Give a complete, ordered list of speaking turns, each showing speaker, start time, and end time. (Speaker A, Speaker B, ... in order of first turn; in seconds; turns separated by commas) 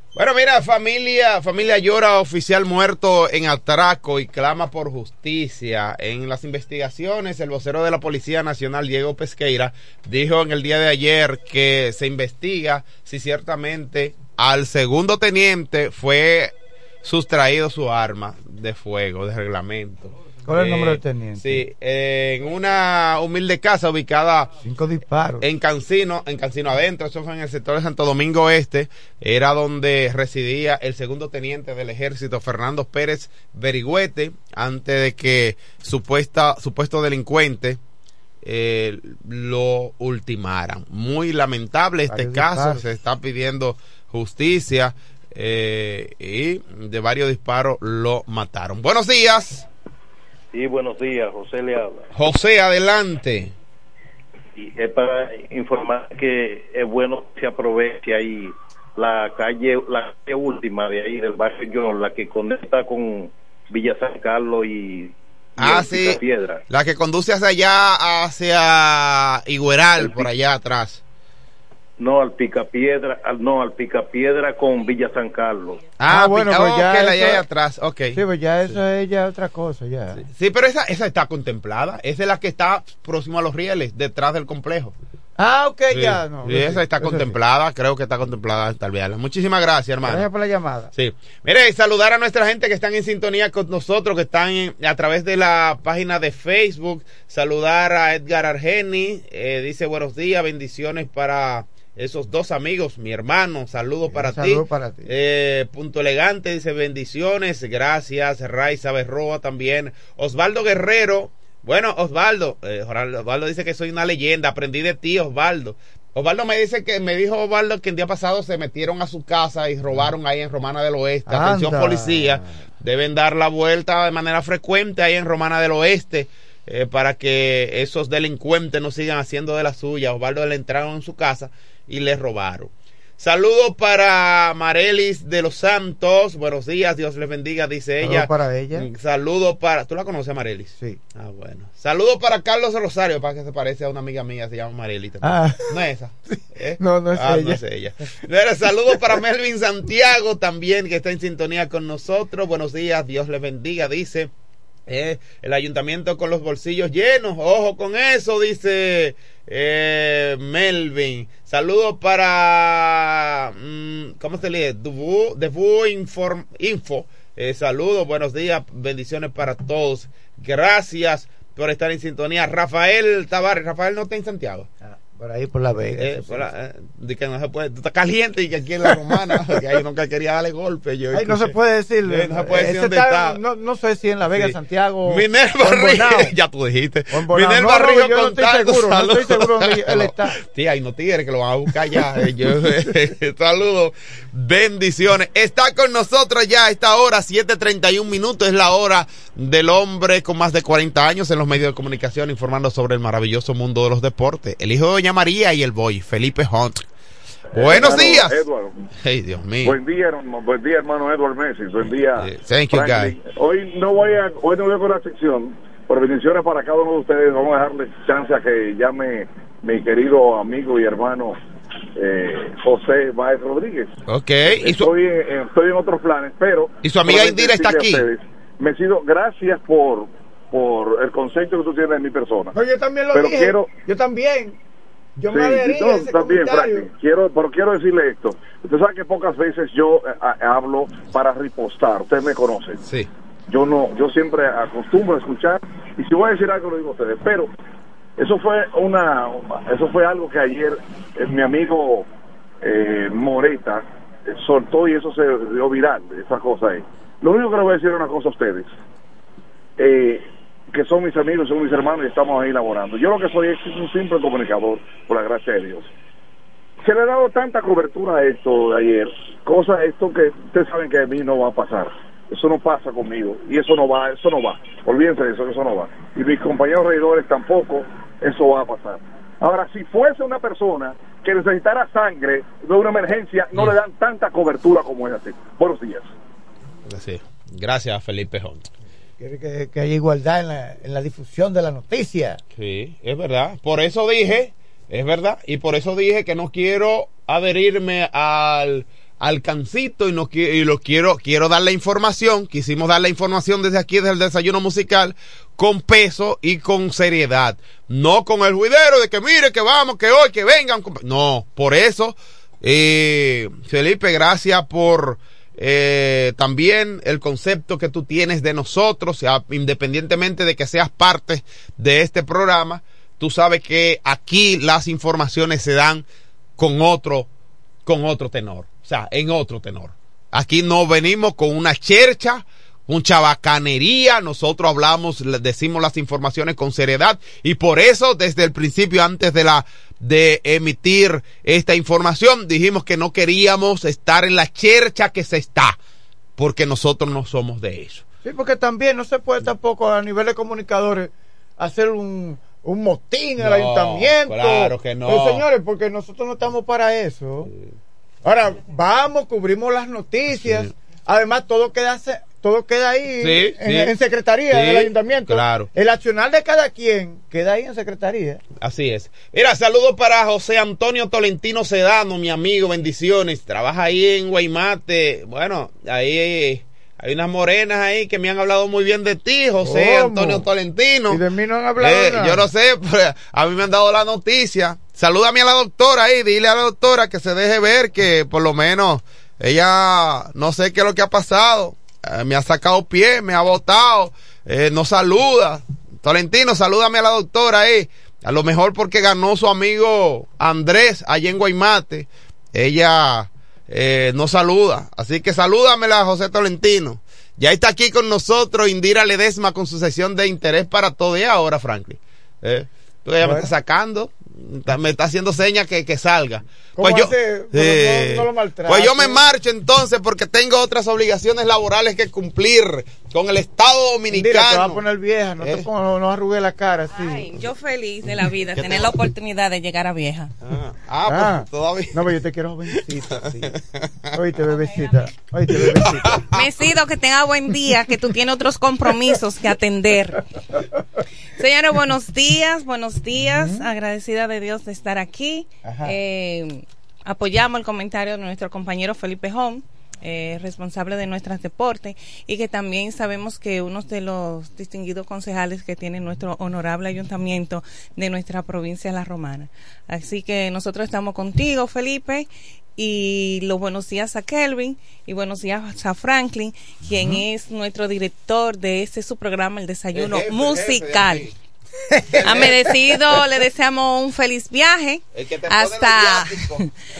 Speaker A: 0.1-24.5, Speaker B: 20.4-21.6, Speaker B: 24.6-25.5, Speaker A: 25.4-37.8, Speaker A: 38.4-49.6, Speaker B: 42.1-42.8, Speaker C: 50.5-52.1, Speaker A: 52.1-53.5, Speaker C: 54.6-66.6, Speaker A: 65.6-71.0, Speaker C: 70.0-70.3, Speaker C: 72.0-75.9, Speaker A: 76.0-78.2, Speaker B: 76.1-77.4, Speaker B: 78.1-80.2, Speaker A: 80.3-84.9, Speaker B: 85.4-87.4, Speaker A: 85.9-90.3, Speaker B: 90.0-90.9, Speaker A: 90.9-154.3, Speaker B: 104.1-105.1, Speaker B: 121.3-122.4, Speaker B: 138.0-138.9, Speaker B: 145.2-145.7, Speaker B: 146.8-147.6, Speaker A: 154.9-174.7, Speaker B: 174.8-176.5, Speaker A: 176.0-181.5, Speaker B: 181.1-186.3, Speaker A: 182.1-183.4, Speaker A: 184.4-206.8, Speaker B: 187.1-190.4, Speaker D: 207.5-208.8, Speaker A: 207.5-208.4, Speaker A: 209.0-209.8, Speaker D: 209.6-221.4, Speaker A: 211.9-213.1, Speaker D: 222.0-223.9, Speaker A: 224.1-224.9, Speaker D: 224.5-232.6, Speaker A: 226.8-228.1, Speaker B: 232.6-234.6, Speaker D: 233.1-233.7, Speaker B: 235.2-236.9, Speaker D: 235.3-242.8, Speaker A: 242.8-243.1, Speaker D: 243.5-247.5, Speaker D: 248.2-252.1, Speaker D: 252.6-258.7, Speaker D: 259.8-265.9, Speaker D: 266.9-286.1, Speaker A: 286.9-288.6, Speaker B: 289.2-292.4, Speaker A: 292.6-326.1, Speaker A: 326.6-327.3, Speaker A: 327.9-345.8, Speaker A: 346.4-348.0, Speaker B: 348.2-357.5, Speaker A: 353.4-355.4, Speaker B: 358.2-368.4, Speaker A: 363.2-363.9, Speaker A: 364.5-365.7, Speaker A: 368.6-381.2, Speaker B: 379.6-380.5, Speaker B: 381.1-382.5, Speaker A: 381.8-424.8, Speaker B: 413.2-413.5, Speaker B: 416.8-419.2, Speaker B: 424.1-427.4, Speaker E: 426.9-430.3, Speaker A: 428.5-429.1, Speaker A: 430.4-432.0, Speaker B: 431.1-433.5, Speaker A: 433.5-434.1, Speaker B: 434.1-436.2, Speaker A: 435.6-436.5, Speaker E: 436.3-440.2, Speaker E: 441.4-471.3, Speaker B: 445.6-446.0, Speaker B: 466.9-467.2, Speaker A: 469.9-471.3, Speaker B: 471.9-472.6, Speaker A: 472.1-472.5, Speaker E: 472.2-476.7, Speaker A: 475.1-476.6